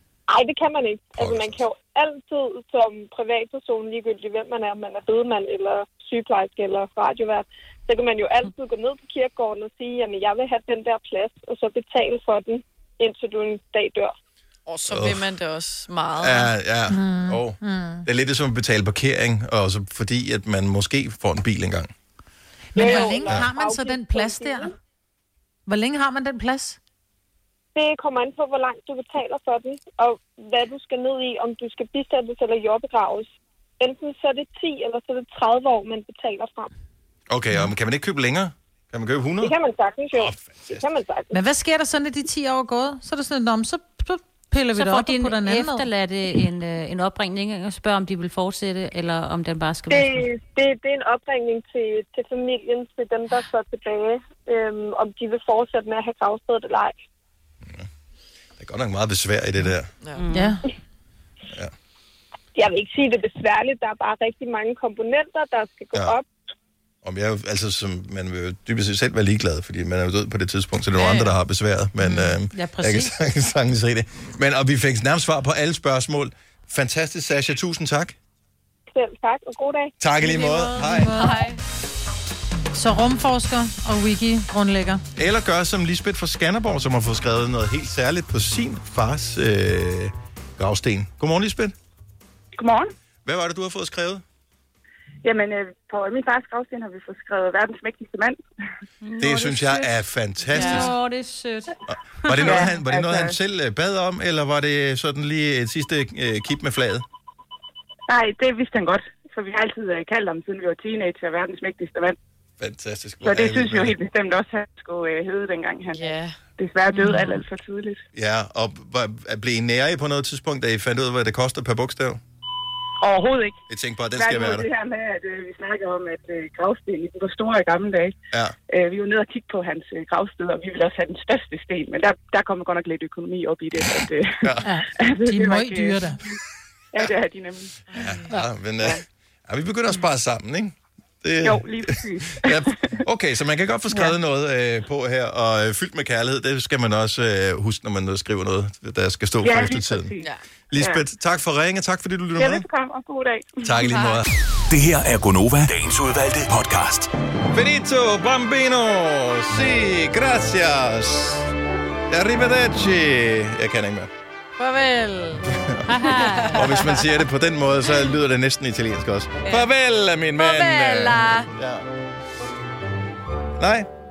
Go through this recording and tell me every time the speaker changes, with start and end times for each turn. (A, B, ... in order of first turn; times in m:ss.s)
0:00.3-0:14.1 A
0:01.2-0:01.6 B
0:14.7-0:16.5 C
0:14.9-0:15.2 B
0:16.2-0:21.9 B
0:16.9-0:18.0 D
0:22.7-0:24.7 D
0:22.7-0:24.7 A
0:23.2-0:23.5 B
0:25.7-0:26.8 D
0:27.8-0:36.7 A
0:37.3-0:39.5 B
0:39.4-0:41.3 A
0:40.1-0:40.9 B
0:41.3-0:45.8 D
0:44.7-0:50.3 E
0:49.9-0:56.9 A
0:58.6-0:59.9 B
1:00.2-1:00.6 E
1:00.3-1:00.6 D
1:02.5-1:06.2 A
1:07.0-1:18.2 B
1:10.9-1:11.3 C
1:12.0-1:13.2 D
1:18.9-1:19.9 A
1:20.0-1:21.2 B
1:20.2-1:21.4 D
1:21.0-1:21.6 C
1:22.7-1:25.0 D
1:25.1-1:31.7 B
1:32.6-1:32.9 F
1:33.2-1:34.2 B
1:35.2-1:38.4 F
1:39.0-1:39.9 E
1:39.2-1:40.9 B
1:40.5-1:41.8 E
1:40.5-1:40.9 C
1:41.9-1:47.0 B
1:42.3-1:42.7 E
1:42.4-1:43.4 F
1:48.1-1:52.2 F
1:52.6-1:53.9 B
1:53.2-1:56.0 F
1:55.9-1:56.4 C
1:56.6-1:58.0 F
1:57.0-1:57.4 D
1:57.0-1:57.4 E
1:58.1-2:02.2 B
2:03.0-2:03.6 F
2:03.7-2:04.7 B
2:04.2-2:08.2 F
2:08.7-2:16.2 F
2:14.6-2:16.2 D
2:16.9-2:17.8 F
2:17.9-2:18.3 C
2:17.9-2:30.1 B
2:21.4-2:23.0 F
2:29.4-2:30.2 F
2:30.7-2:32.6 B
2:30.7-2:31.0 F
2:32.4-2:33.6 F
2:33.6-2:34.3 B
2:33.8-2:34.2 C
2:34.7-2:37.1 G
2:37.5-2:41.5 B
2:42.1-2:44.1 B
2:44.6-2:47.1 C
2:45.5-2:45.9 B
2:45.9-2:46.7 E
2:46.5-2:51.8 B
2:50.4-2:51.5 C
2:53.6-2:53.9 B